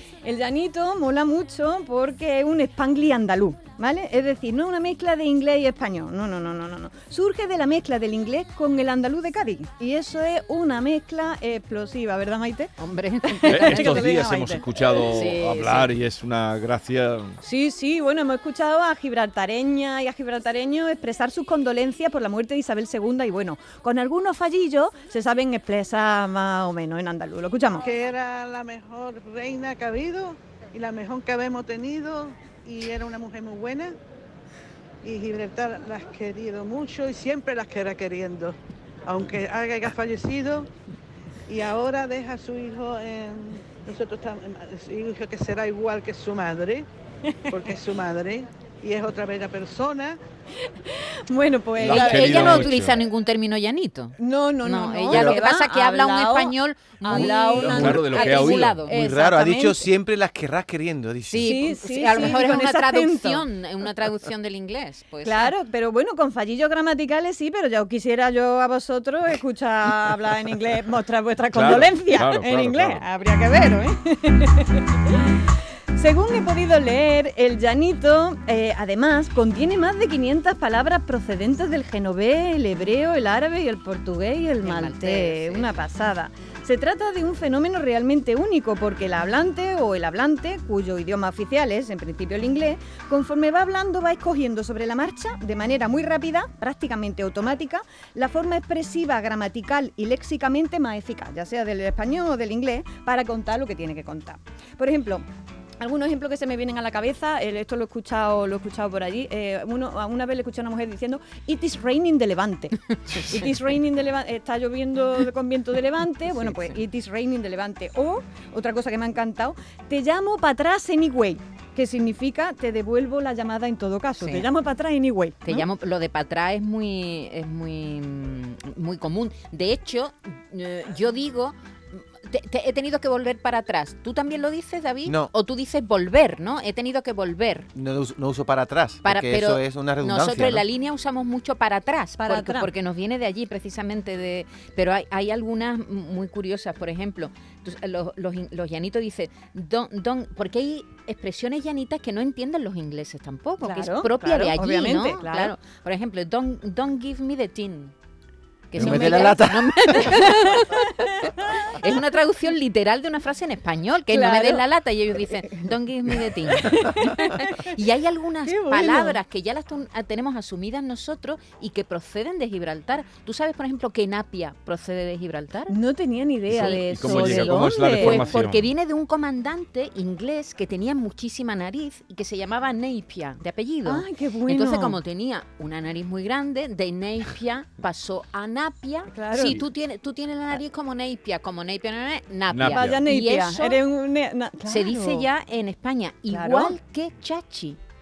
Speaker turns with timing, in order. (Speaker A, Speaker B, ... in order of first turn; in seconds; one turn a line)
Speaker A: 0.2-12.7
Speaker B: 12.8-14.1
Speaker A: 13.2-15.0
Speaker C: 13.5-17.4
Speaker B: 15.1-15.9
Speaker A: 17.4-27.9
Speaker D: 27.8-34.0
Speaker D: 35.0-40.7
Speaker D: 41.5-46.9
Speaker D: 47.5-50.2
Speaker A: 50.9-52.8
Speaker C: 51.8-53.0
Speaker B: 51.8-58.9
Speaker A: 54.2-59.9
Speaker C: 57.1-58.8
Speaker E: 58.9-61.7
Speaker B: 61.3-65.5
Speaker A: 61.4-63.4
Speaker A: 65.2-75.1
Speaker C: 71.5-73.0
Speaker A: 75.9-105.2
Speaker B: 84.6-85.8
Speaker A: 105.8-125.7
Speaker B: 116.3-116.8
Speaker B: 124.2-124.5
Speaker B: 125.4-137.7
Speaker E: 135.0-135.3
Speaker E: 137.7-140.6
Speaker B: 139.0-157.9
Speaker A: 142.2-142.7
Speaker A: 153.6-155.5
Speaker B: 158.7-160.8
Speaker E: 158.7-160.2
Speaker A: 158.8-159.3
Speaker A: 160.1-161.6
Speaker B: 161.7-175.8
Speaker A: 164.1-164.6
Speaker A: 166.5-167.7
Speaker A: 168.4-169.2
Speaker A: 175.7-178.3
Speaker B: 176.5-193.8
Speaker C: 176.5-178.7
Speaker A: 183.8-185.0
Speaker A: 189.1-189.6
Speaker C: 192.5-193.0
Speaker A: 192.7-195.3
Speaker B: 194.7-197.8
Speaker A: 196.3-196.8